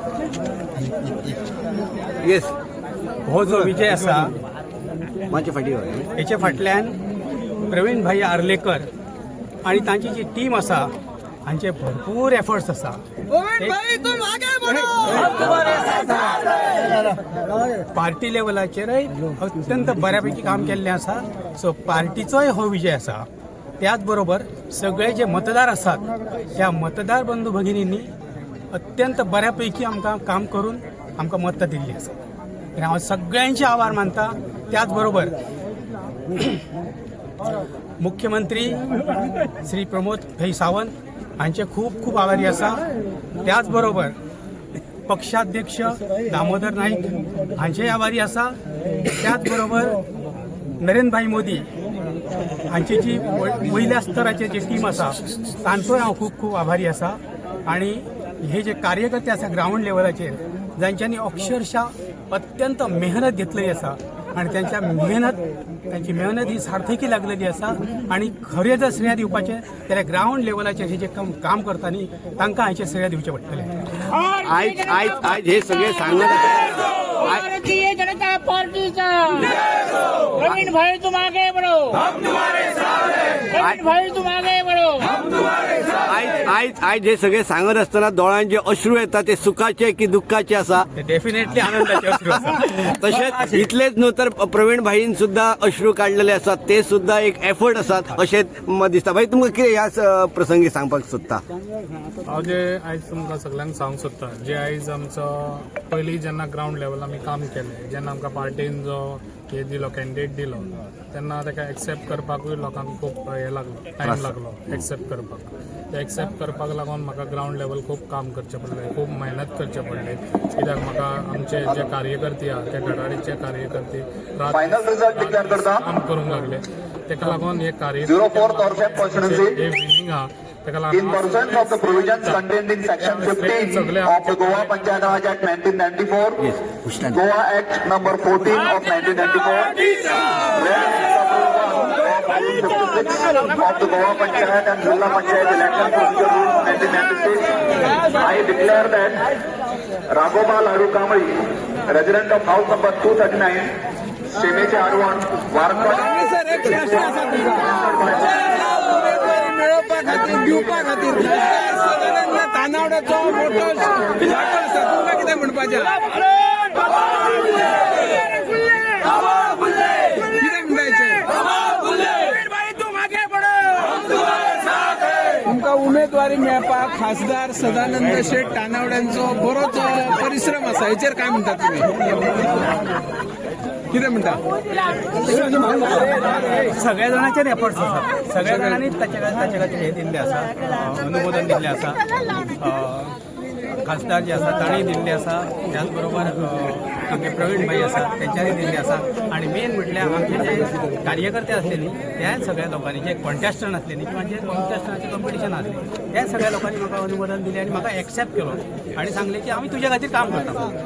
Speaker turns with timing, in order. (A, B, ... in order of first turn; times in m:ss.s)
0:02.2-0:02.5 A
0:03.2-0:04.3 B
0:05.3-0:06.1 A
0:06.2-0:07.0 B
0:07.7-0:08.9 B
0:09.6-0:10.9 B
0:11.4-0:13.0 B
0:13.5-0:13.9 B
0:15.3-0:15.9 A
0:17.9-0:23.2 B
0:23.8-0:28.1 B
0:28.7-0:32.1 B
0:32.8-0:35.4 B
0:38.0-0:38.9 B
0:39.6-0:42.8 B
0:43.4-0:44.2 B
0:45.1-0:50.0 B
0:50.8-0:51.7 B
0:52.7-1:13.7 B
1:14.4-1:17.6 A
1:17.4-1:25.1 C
1:23.5-1:23.9 A
1:25.1-1:30.9 A
1:30.9-1:32.9 B
1:32.7-1:41.4 A
1:42.2-2:12.5 D
1:54.0-1:54.8 A
2:04.5-2:05.9 E
2:08.1-2:09.6 E
2:10.9-2:29.2 E
2:13.0-2:15.2 D
2:16.5-2:17.0 A
2:30.1-2:33.7 E
2:34.3-2:39.2 E
2:39.4-2:45.9 F
2:50.3-2:51.2 F
2:55.4-3:01.9 F
3:03.9-3:04.4 F
3:06.5-3:12.0 B
3:12.6-3:13.1 B
3:13.8-3:30.7 B